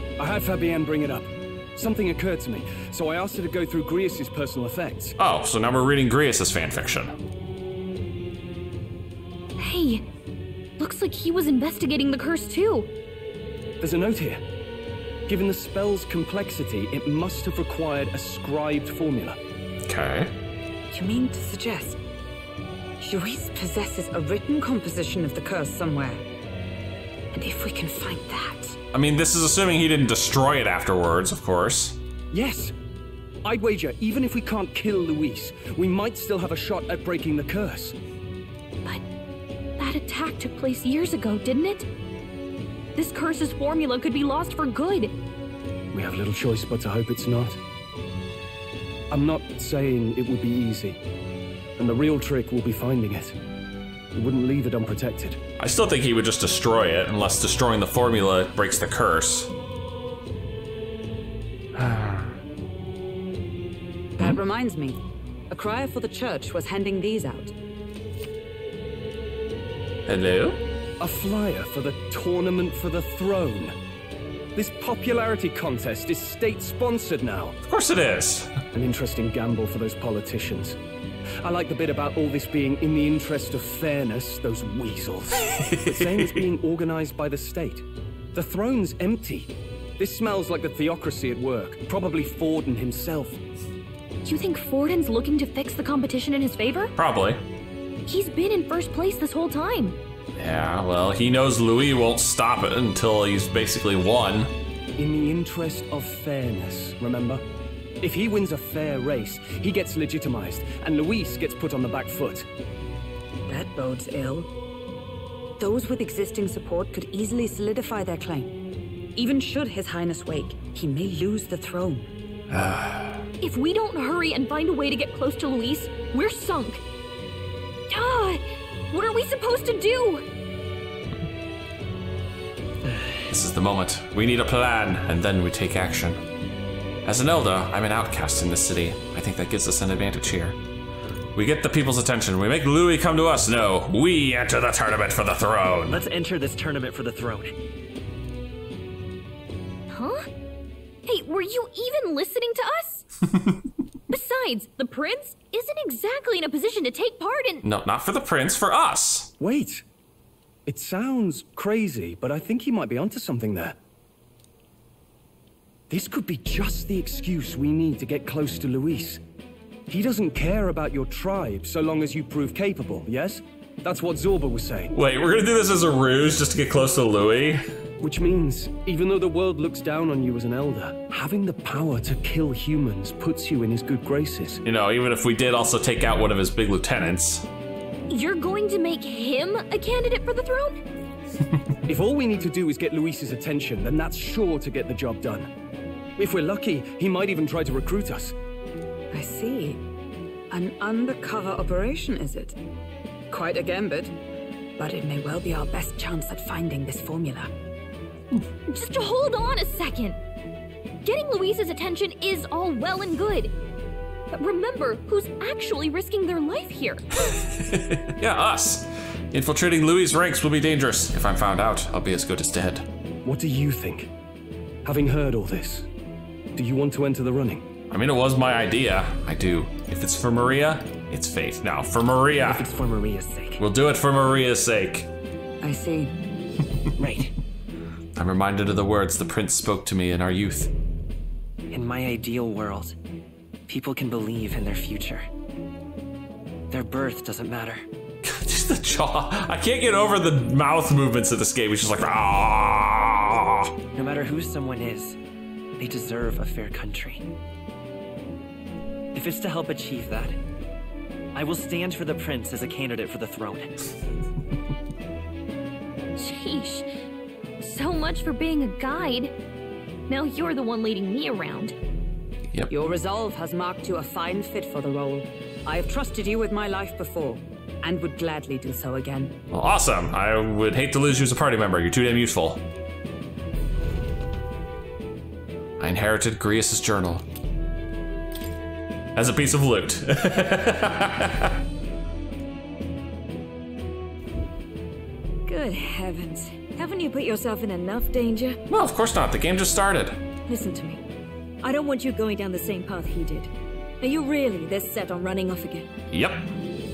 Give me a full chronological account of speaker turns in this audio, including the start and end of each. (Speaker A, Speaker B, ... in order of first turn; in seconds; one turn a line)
Speaker A: 0.2-5.2
Speaker B: 5.2-7.1
Speaker C: 9.6-10.1
Speaker C: 10.8-12.9
Speaker A: 13.8-14.4
Speaker A: 15.3-19.4
Speaker B: 19.9-20.3
Speaker D: 20.9-22.0
Speaker D: 23.0-26.3
Speaker D: 27.3-28.8
Speaker B: 28.9-32.0
Speaker A: 32.3-32.8
Speaker A: 33.4-38.0
Speaker C: 39.8-41.9
Speaker C: 43.0-45.1
Speaker A: 45.9-47.6
Speaker A: 49.1-51.0
Speaker A: 51.8-53.4
Speaker A: 54.1-55.4
Speaker B: 55.6-59.5
Speaker B: 61.8-62.3
Speaker D: 64.2-65.0
Speaker D: 65.5-67.5
Speaker B: 70.1-70.6
Speaker A: 71.0-73.8
Speaker A: 74.5-77.6
Speaker B: 77.7-78.5
Speaker A: 78.7-80.8
Speaker A: 81.4-93.4
Speaker B: 85.5-86.4
Speaker C: 94.2-96.9
Speaker B: 97.0-97.4
Speaker C: 98.1-100.0
Speaker B: 100.4-104.5
Speaker A: 105.0-107.4
Speaker A: 108.0-112.5
Speaker D: 113.5-114.5
Speaker D: 115.6-118.6
Speaker D: 119.1-122.1
Speaker B: 122.5-123.2
Speaker C: 123.4-126.8
Speaker C: 127.9-130.2
Speaker B: 133.3-136.2
Speaker B: 137.1-140.6
Speaker B: 141.3-146.0
Speaker E: 145.9-147.6
Speaker C: 149.9-150.3
Speaker C: 151.1-153.1
Speaker C: 154.1-157.6
Speaker B: 157.6-159.3
Speaker A: 159.4-159.8
Speaker A: 160.7-163.8
Speaker A: 165.9-169.2
Speaker A: 169.9-174.9
Speaker B: 174.9-177.6
Speaker A: 178.0-184.6
Speaker B: 184.6-187.5
Speaker C: 188.1-190.8
Speaker A: 191.9-195.5
Speaker A: 196.2-198.4
Speaker D: 199.1-199.8
Speaker D: 200.5-202.6
Speaker D: 203.3-204.2
Speaker D: 204.8-207.5
Speaker C: 208.7-210.2
Speaker C: 211.0-213.5
Speaker C: 214.3-217.3
Speaker B: 217.3-222.9
Speaker A: 223.2-224.1
Speaker A: 224.8-225.9
Speaker A: 226.6-227.7
Speaker B: 227.9-232.7
Speaker E: 232.4-233.6
Speaker B: 233.6-235.1
Speaker D: 235.6-236.1
Speaker E: 237.0-237.3
Speaker B: 238.1-240.7
Speaker E: 241.7-243.0
Speaker E: 243.7-245.3
Speaker E: 246.7-247.9
Speaker B: 248.2-253.7
Speaker E: 253.9-255.2
Speaker E: 255.8-257.3
Speaker E: 259.1-260.4
Speaker E: 261.3-263.9
Speaker C: 266.2-266.9
Speaker C: 267.6-269.3
Speaker C: 270.1-271.8
Speaker D: 272.7-279.4
Speaker B: 279.5-282.6
Speaker B: 285.8-287.2
Speaker B: 289.2-291.6
Speaker F: 295.5-298.6
Speaker B: 298.7-300.2
Speaker F: 300.5-301.0
Speaker F: 301.6-305.9
Speaker B: 306.1-306.5